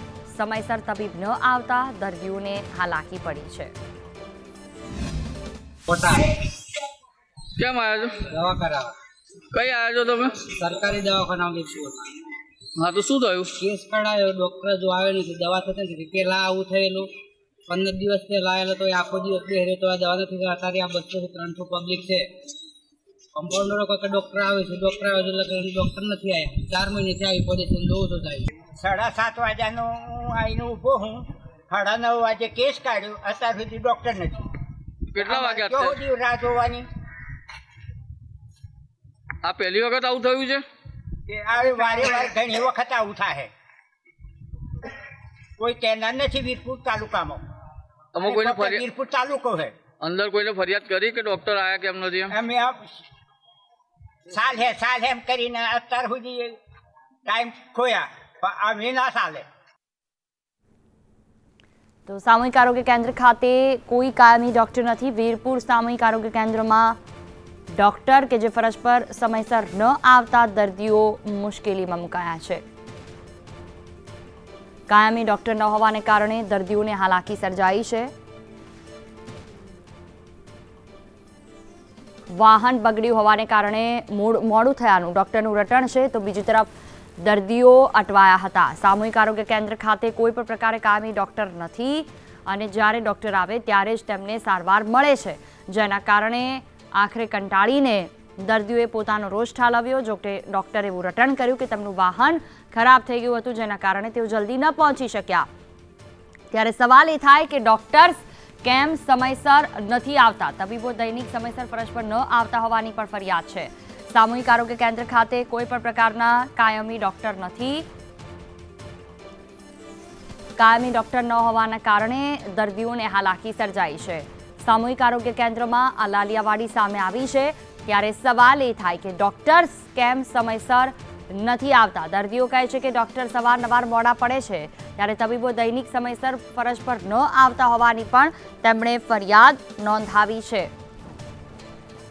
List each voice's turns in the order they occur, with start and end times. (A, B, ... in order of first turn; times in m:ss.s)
0:00.3-0:03.7 A
0:05.9-0:06.4 B
0:07.6-0:08.2 C
0:08.2-0:08.9 B
0:09.5-0:10.5 C
0:10.5-0:12.2 B
0:12.8-0:13.6 C
0:13.6-0:17.1 B
0:17.7-0:22.3 B
0:23.3-0:28.5 B
0:28.7-0:34.4 D
0:35.1-0:36.0 C
0:35.2-0:36.9 D
0:39.4-0:40.6 C
0:41.3-0:43.5 D
0:45.6-0:47.4 D
0:48.1-0:48.8 C
0:48.2-0:49.7 D
0:50.0-0:52.3 C
0:52.3-0:53.0 D
0:54.3-0:56.6 D
0:57.3-0:59.4 D
1:02.1-1:07.0 A
1:07.8-1:12.6 A
1:14.9-1:18.1 A
1:22.3-1:26.7 A
1:27.2-1:45.5 A
1:46.5-1:57.9 A
2:00.6-2:20.7 A